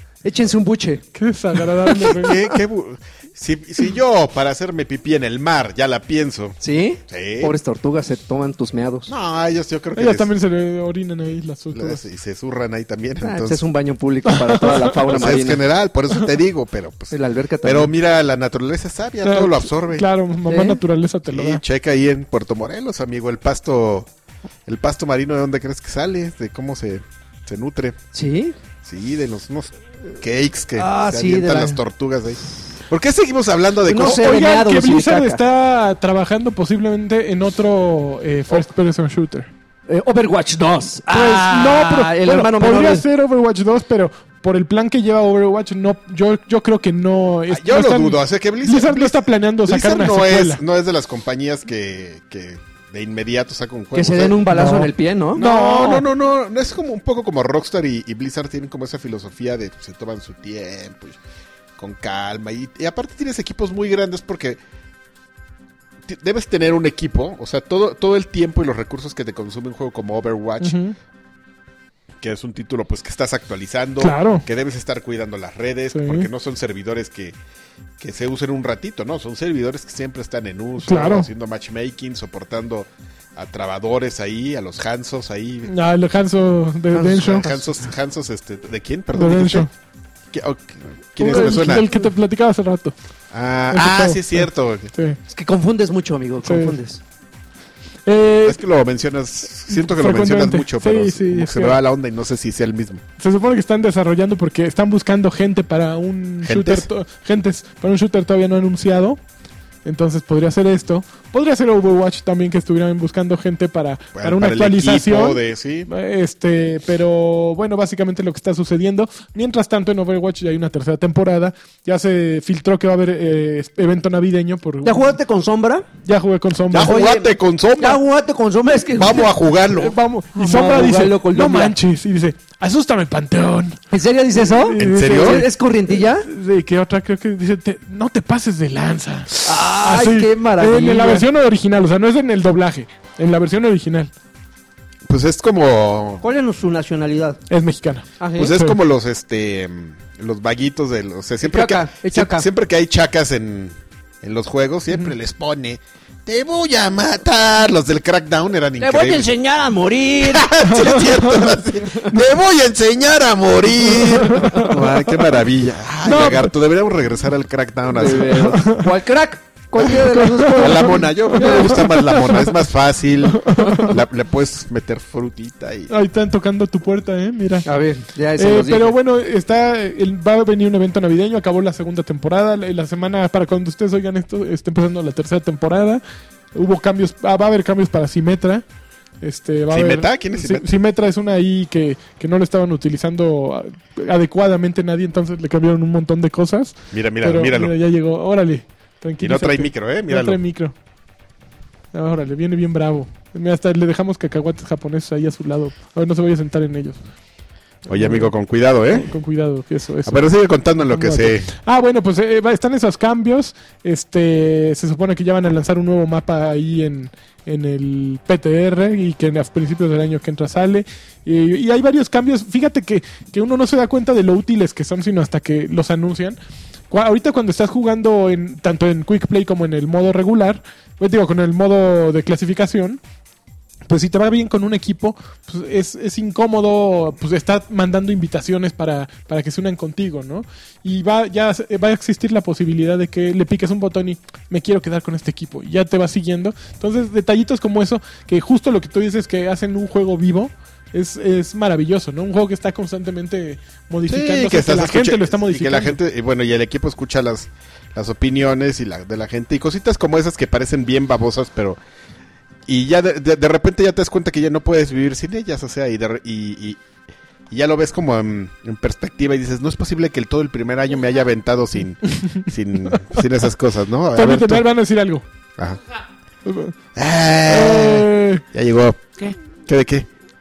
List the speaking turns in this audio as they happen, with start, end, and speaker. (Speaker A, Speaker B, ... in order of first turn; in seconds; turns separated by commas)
Speaker A: 0.2-1.0, Speaker B: 1.1-2.4, Speaker C: 2.0-6.6, Speaker A: 6.6-9.1, Speaker C: 7.1-7.5, Speaker C: 9.1-10.3, Speaker B: 9.9-12.0, Speaker C: 11.7-13.6, Speaker A: 13.2-15.6, Speaker B: 14.3-15.0, Speaker C: 15.0-17.1, Speaker A: 17.1-17.9, Speaker C: 17.6-20.1, Speaker B: 19.2-21.6, Speaker A: 20.5-20.8, Speaker C: 21.3-24.1, Speaker C: 24.6-28.0, Speaker A: 28.1-28.6, Speaker C: 28.8-34.4, Speaker A: 30.8-31.8, Speaker A: 33.9-35.4, Speaker B: 34.0-39.5, Speaker A: 39.9-43.0, Speaker B: 41.1-50.6, Speaker C: 47.5-54.4, Speaker A: 53.9-55.4, Speaker B: 54.5-56.0, Speaker C: 55.4-61.2, Speaker C: 61.8-64.6, Speaker C: 66.0-70.8, Speaker B: 70.6-70.9, Speaker C: 72.2-77.3, Speaker B: 74.0-74.4, Speaker B: 75.9-76.3, Speaker C: 78.0-85.7, Speaker B: 80.8-81.3, Speaker B: 85.7-87.5, Speaker A: 86.9-87.5, Speaker C: 87.0-89.7, Speaker B: 89.1-89.7, Speaker C: 90.3-91.9, Speaker B: 91.2-92.9, Speaker C: 93.3-94.9, Speaker B: 93.7-95.2, Speaker A: 95.3-97.0, Speaker B: 96.5-96.7, Speaker B: 98.0-98.6, Speaker C: 98.4-103.0, Speaker B: 99.7-101.8, Speaker B: 103.2-109.2, Speaker C: 106.4-106.9, Speaker B: 109.8-125.1, Speaker C: 114.2-115.9, Speaker A: 124.8-125.9, Speaker B: 126.0-127.0, Speaker C: 126.7-128.0, Speaker A: 126.8-129.3, Speaker C: 128.9-129.9, Speaker B: 129.7-133.8, Speaker A: 130.3-131.8, Speaker A: 133.9-136.3, Speaker B: 134.4-144.1, Speaker C: 134.8-135.5, Speaker A: 139.4-141.3, Speaker C: 145.1-146.2, Speaker A: 146.2-147.4, Speaker B: 147.5-148.8, Speaker A: 148.2-148.5, Speaker C: 148.4-159.3, Speaker A: 151.4-152.5, Speaker A: 158.8-160.8, Speaker C: 160.2-168.6, Speaker B: 160.7-161.6, Speaker B: 164.2-164.7, Speaker A: 164.6-165.0, Speaker B: 166.0-166.5, Speaker A: 167.9-171.9, Speaker B: 168.4-168.9, Speaker B: 170.0-172.6, Speaker C: 170.6-175.9, Speaker B: 173.3-174.0, Speaker B: 175.9-177.7, Speaker A: 177.6-178.9, Speaker B: 178.3-186.0, Speaker B: 186.5-188.6, Speaker B: 189.2-200.7, Speaker C: 189.7-190.7, Speaker C: 196.9-197.7, Speaker C: 199.2-200.4, Speaker B: 201.9-207.0, Speaker C: 207.9-209.1, Speaker B: 207.9-208.3, Speaker B: 208.9-210.3, Speaker C: 210.0-211.5, Speaker B: 210.8-226.4, Speaker B: 226.9-233.0, Speaker B: 233.9-256.0, Speaker C: 254.1-261.8, Speaker C: 262.7-266.8, Speaker C: 267.5-274.7, Speaker B: 272.9-273.2, Speaker B: 274.1-275.2, Speaker B: 276.4-276.7, Speaker C: 276.9-279.0, Speaker B: 277.4-278.4, Speaker C: 279.7-280.1